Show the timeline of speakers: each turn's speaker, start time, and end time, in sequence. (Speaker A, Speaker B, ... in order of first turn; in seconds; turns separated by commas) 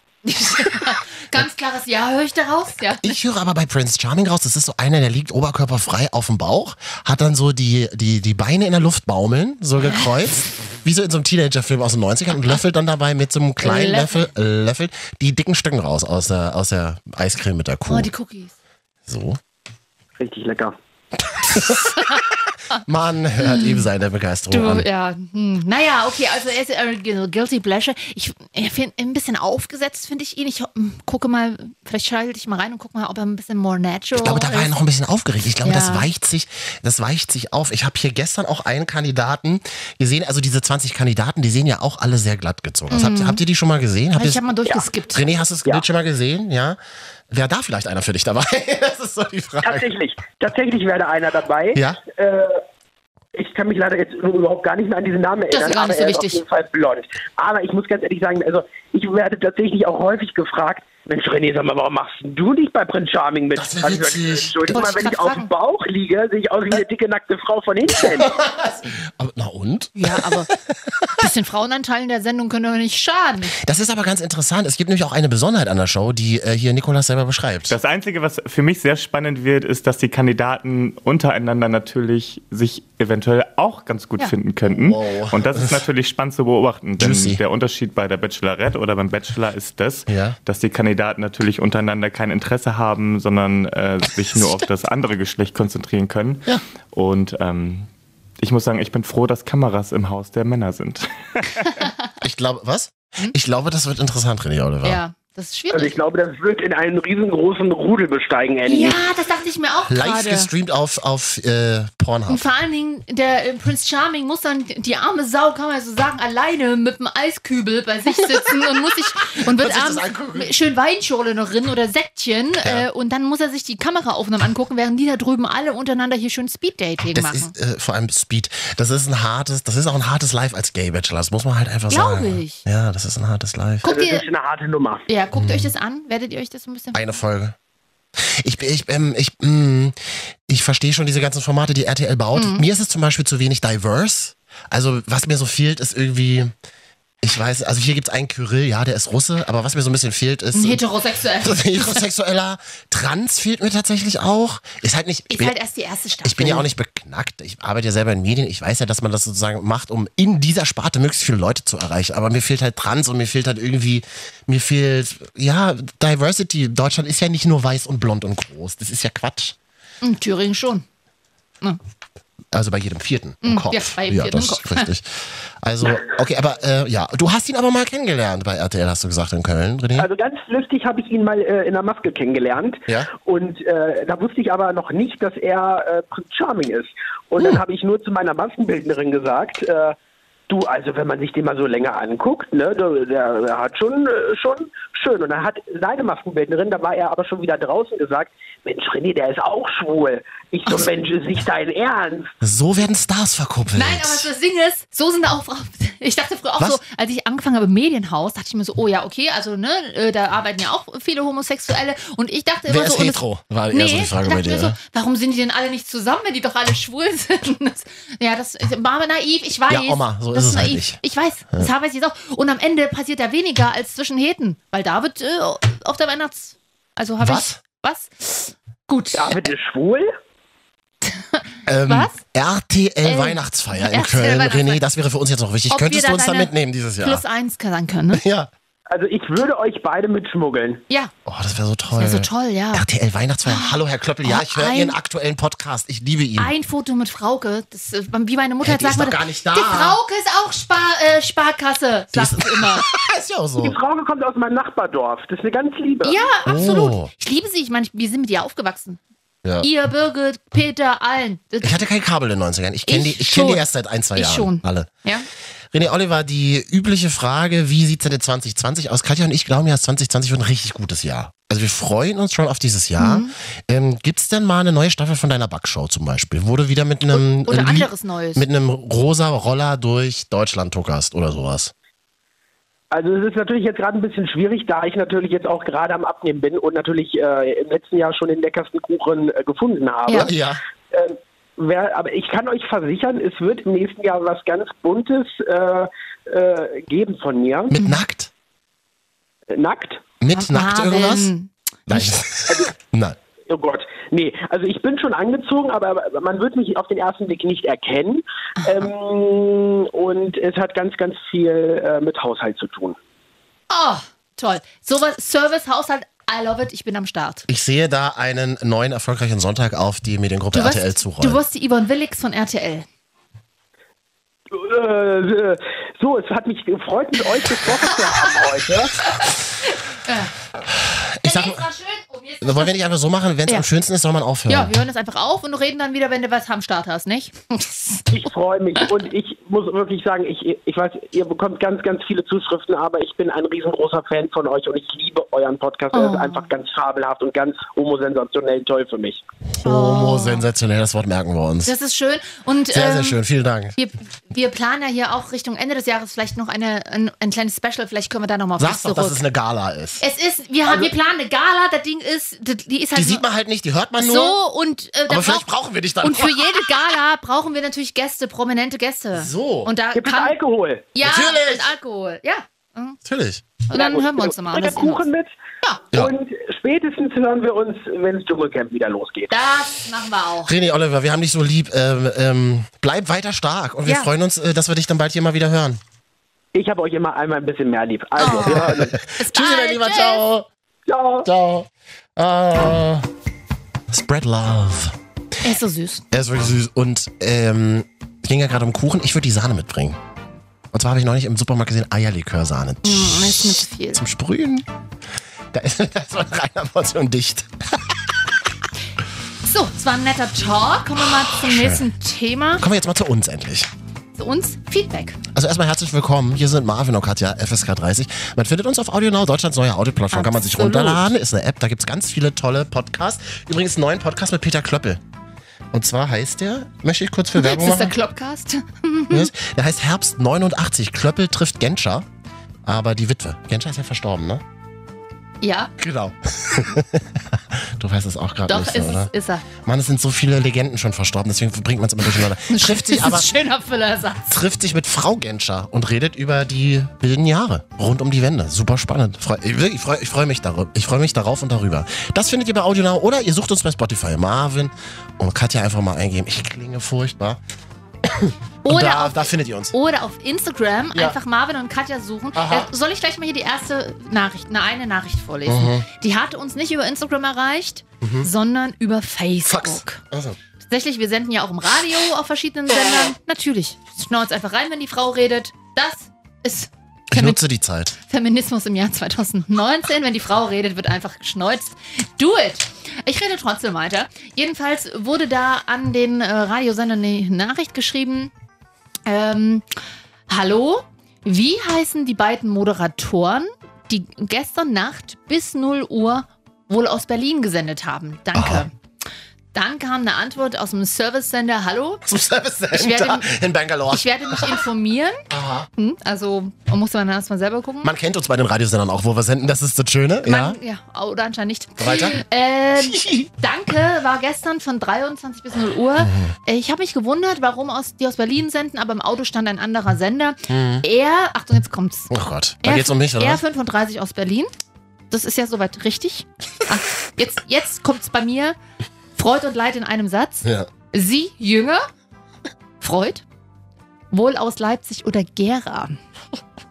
Speaker A: 0.3-3.1, Speaker B: 3.0-18.1, Speaker A: 9.8-10.1, Speaker A: 13.6-14.3, Speaker A: 17.9-18.5, Speaker B: 19.1-19.4, Speaker C: 20.2-20.8, Speaker B: 21.4-24.9, Speaker A: 21.9-22.2, Speaker A: 23.4-23.8, Speaker A: 24.5-34.7, Speaker B: 34.1-44.4, Speaker A: 35.6-36.1, Speaker A: 42.9-43.4, Speaker A: 44.1-45.2, Speaker B: 45.1-46.8, Speaker B: 47.3-49.9, Speaker C: 49.6-52.6, Speaker B: 51.8-52.0, Speaker C: 53.4-68.3, Speaker A: 55.5-56.4, Speaker B: 63.5-65.0, Speaker A: 64.7-65.5, Speaker B: 67.9-71.1, Speaker A: 70.0-70.5, Speaker A: 71.2-73.5, Speaker B: 73.6-77.8, Speaker D: 77.7-97.9, Speaker B: 84.7-85.8, Speaker B: 87.0-87.4, Speaker B: 90.1-90.4, Speaker D: 98.4-101.8, Speaker B: 102.2-105.0, Speaker A: 104.8-106.0, Speaker C: 105.7-109.0, Speaker A: 108.7-110.5, Speaker B: 109.9-112.5, Speaker A: 112.3-127.5, Speaker B: 118.1-118.5, Speaker B: 119.2-120.5, Speaker B: 122.6-122.9, Speaker B: 127.1-133.9, Speaker A: 131.9-132.7, Speaker A: 133.8-134.3, Speaker C: 133.8-135.1, Speaker A: 135.1-137.1, Speaker B: 135.3-135.7, Speaker B: 136.9-137.6, Speaker B: 138.2-140.0, Speaker B: 140.5-146.5, Speaker A: 142.3-142.7, Speaker B: 147.2-150.8, Speaker A: 150.5-152.0, Speaker B: 151.4-155.6, Speaker A: 155.3-156.7, Speaker B: 156.2-169.6, Speaker A: 170.0-170.8, Speaker B: 172.5-180.1, Speaker A: 173.4-174.9, Speaker C: 180.0-190.0, Speaker C: 190.5-202.3, Speaker B: 202.4-204.3, Speaker A: 203.8-229.3, Speaker B: 212.7-214.8, Speaker B: 219.7-221.0, Speaker B: 227.2-227.6, Speaker C: 229.1-230.1, Speaker A: 231.1-232.2, Speaker B: 231.7-237.2, Speaker A: 233.0-234.8, Speaker A: 235.7-238.2, Speaker B: 238.1-238.5, Speaker C: 238.9-240.8, Speaker B: 241.3-246.5, Speaker A: 241.9-242.8, Speaker A: 243.5-245.0, Speaker A: 246.4-252.9, Speaker B: 248.6-250.0, Speaker B: 252.1-253.8, Speaker C: 253.6-256.3, Speaker A: 256.0-259.0, Speaker B: 256.5-257.1, Speaker A: 259.6-261.9, Speaker B: 261.6-264.9, Speaker A: 262.9-265.3, Speaker B: 265.7-281.7, Speaker A: 273.0-273.3, Speaker A: 277.1-278.4, Speaker C: 282.9-290.4, Speaker B: 290.1-290.6, Speaker C: 290.9-297.8, Speaker B: 297.7-298.3, Speaker C: 299.5-300.0, Speaker B: 300.2-301.3, Speaker A: 300.3-302.0, Speaker B: 301.9-303.2, Speaker C: 303.5-313.0, Speaker A: 313.7-317.4, Speaker B: 317.5-321.4, Speaker A: 320.5-322.9, Speaker C: 324.5-329.0, Speaker A: 329.1-330.3, Speaker B: 330.8-331.6, Speaker A: 331.2-332.7, Speaker B: 332.4-334.7, Speaker A: 334.5-338.1, Speaker C: 338.1-349.2, Speaker A: 345.9-346.5, Speaker B: 349.6-351.7, Speaker A: 349.6-350.5, Speaker A: 351.6-353.2, Speaker B: 352.7-353.8, Speaker A: 353.8-359.2, Speaker B: 358.6-360.0, Speaker A: 360.0-363.2, Speaker C: 360.7-360.9, Speaker B: 362.9-364.4, Speaker A: 364.0-365.5, Speaker B: 365.1-366.8, Speaker A: 366.0-370.4, Speaker B: 369.1-369.7, Speaker C: 369.9-370.9, Speaker A: 370.9-373.0, Speaker B: 371.0-371.7, Speaker B: 373.1-373.5, Speaker A: 373.7-375.0, Speaker C: 373.7-375.3, Speaker C: 375.9-379.3, Speaker A: 379.3-380.5, Speaker B: 380.4-385.8, Speaker A: 383.9-384.1, Speaker C: 386.5-389.0, Speaker A: 388.2-390.2, Speaker B: 388.2-390.5, Speaker C: 390.9-391.3, Speaker B: 391.2-393.1, Speaker B: 393.9-394.9, Speaker A: 395.4-396.0, Speaker B: 396.1-400.0, Speaker B: 400.7-404.7, Speaker A: 402.8-404.0, Speaker B: 405.5-408.1, Speaker A: 409.4-412.6, Speaker B: 411.0-411.9, Speaker B: 412.6-413.7, Speaker A: 414.2-415.2, Speaker B: 415.3-425.0, Speaker A: 420.1-421.1, Speaker B: 425.7-428.0, Speaker A: 427.4-429.3, Speaker B: 429.1-432.1, Speaker B: 432.7-434.4, Speaker A: 435.4-435.7, Speaker B: 435.8-443.3, Speaker A: 438.5-439.4, Speaker A: 442.1-444.3, Speaker B: 444.3-457.4, Speaker B: 458.1-459.8, Speaker A: 458.6-470.0, Speaker B: 462.4-462.7, Speaker B: 465.5-465.9, Speaker B: 468.0-468.3, Speaker B: 469.4-470.4, Speaker A: 470.6-477.4, Speaker B: 477.1-478.0, Speaker A: 478.0-488.3, Speaker A: 489.1-489.7, Speaker A: 490.3-498.7, Speaker B: 498.3-498.7, Speaker A: 499.5-502.0, Speaker B: 502.0-504.6, Speaker A: 502.7-503.3, Speaker A: 503.9-505.2, Speaker B: 505.3-505.7, Speaker A: 505.8-507.9, Speaker B: 507.8-510.6, Speaker A: 510.2-522.1, Speaker B: 511.8-512.2, Speaker B: 512.8-513.3, Speaker B: 516.0-516.4, Speaker B: 520.5-520.9, Speaker B: 522.1-523.4, Speaker A: 522.6-524.5, Speaker A: 525.1-528.6, Speaker A: 529.2-531.8, Speaker B: 530.4-530.7, Speaker A: 532.8-533.2, Speaker A: 534.1-536.0